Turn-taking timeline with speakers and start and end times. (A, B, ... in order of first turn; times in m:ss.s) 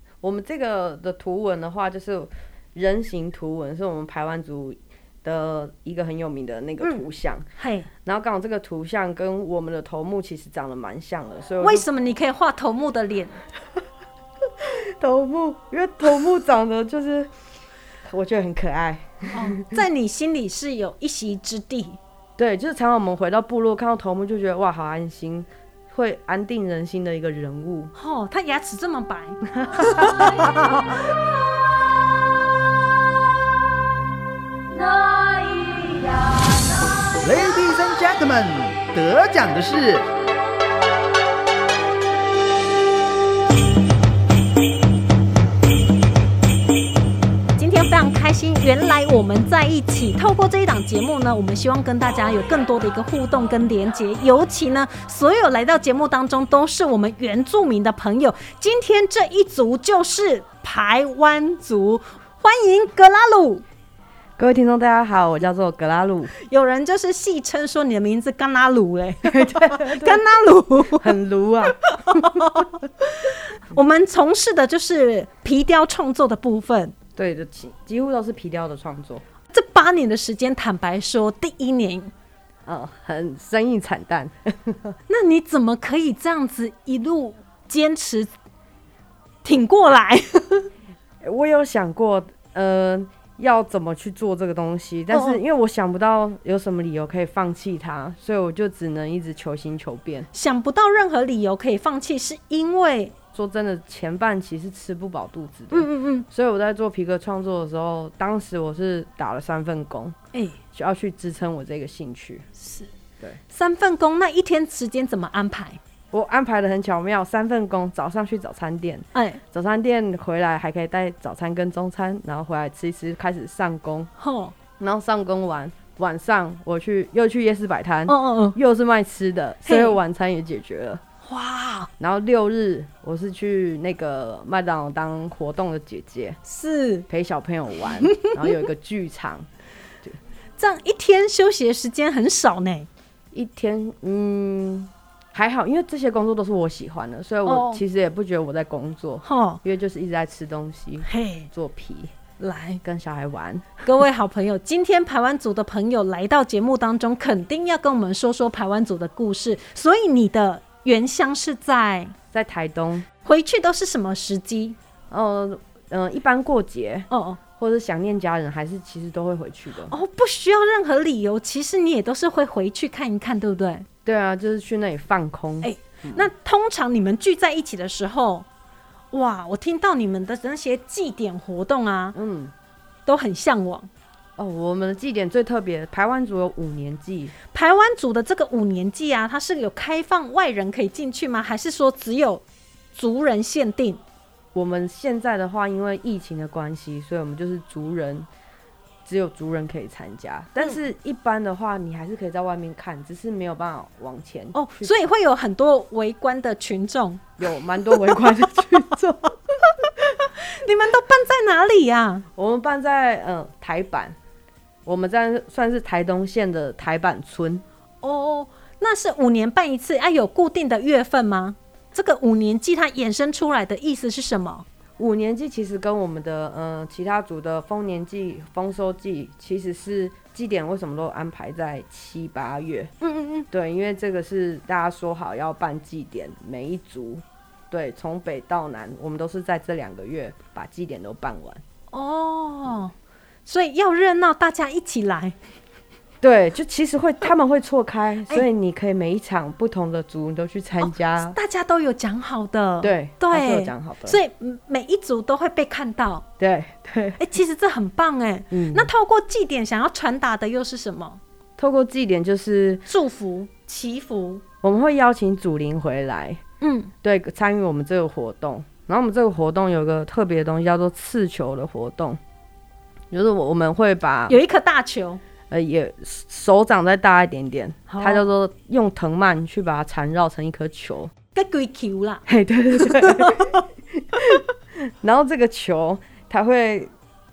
0:00.2-0:07.4 A
0:07.6-0:07.9 B
0:08.0-0:11.8 A
0:11.6-0:13.4 B
0:14.6-0:17.3 A
0:18.1-0:19.8 A
0:19.3-0:22.0 B
0:22.4-0:27.9 A
0:27.9-0:30.6 B
0:29.6-0:30.8 A
0:37.2-0:40.1 C
0:47.6-1:03.6 B
1:04.4-1:06.3 A
1:06.4-1:11.1 B
1:09.2-1:10.2 A
1:10.9-1:12.6 A
1:11.8-1:17.0 B
1:17.2-1:19.2 A
1:19.5-1:22.1 B
1:22.6-1:25.0 A
1:25.1-1:28.3 B
1:29.4-1:30.7 B
1:31.2-1:40.3 A
1:35.1-1:35.4 B
1:40.3-1:43.1 B
1:43.3-1:50.2 A
1:45.7-1:46.2 B
1:50.3-1:50.6 B
1:50.7-1:52.4 A
1:52.6-1:52.9 B
1:53.5-1:55.8 B
1:56.1-2:04.1 A
1:59.1-1:59.4 B
2:04.2-2:04.5 B
2:04.8-2:11.0 A
2:08.1-2:08.6 B
2:09.6-2:10.0 B
2:11.2-2:11.9 B
2:12.0-2:16.4 A
2:16.4-2:17.0 B
2:17.1-2:19.5 A
2:18.1-2:18.4 B
2:20.6-2:22.9 B
2:23.3-2:32.1 A
2:27.4-2:27.8 B
2:29.2-2:29.6 B
2:31.1-2:31.5 B
2:32.4-2:32.8 B
2:32.8-2:33.8 A
2:33.8-2:42.1 B
2:42.3-2:43.1 A
2:43.2-2:44.8 B
2:45.1-2:50.0 A
2:47.1-2:47.4 B
2:49.9-2:53.8 B
2:54.0-2:56.3 A
2:55.6-2:58.4 B
2:59.1-3:02.2 B
3:02.1-3:02.5 A
3:03.0-3:03.9 B
3:04.4-3:07.3 A
3:07.5-3:12.4 B
3:12.9-3:14.0 B
3:14.5-3:18.3 A
3:19.0-3:24.9 A
3:24.5-3:27.4 B
3:27.4-3:29.4 A
3:27.9-3:28.2 B
3:29.8-3:32.2 B
3:32.4-3:34.2 A
3:34.8-3:37.6 A
3:38.0-3:44.6 B
3:45.0-3:52.9 A
3:53.0-3:53.5 B
3:53.5-4:01.6 A
4:01.9-4:02.9 B
4:03.4-4:05.4 B
4:06.2-4:11.4 A
4:10.8-4:16.2 B
4:12.8-4:14.2 A
4:16.4-4:17.2 A
4:17.2-4:21.2 B
4:18.5-4:18.9 A
4:21.6-4:22.8 A
4:22.9-4:24.4 B
4:24.6-4:26.4 A
4:26.6-4:26.9 B
4:27.0-4:32.2 A
4:33.1-4:34.4 A
4:34.3-4:35.2 B
4:35.5-4:41.1 A
4:37.9-4:38.2 B
4:41.3-4:42.2 B
4:42.3-4:46.9 A
4:42.8-4:43.6 B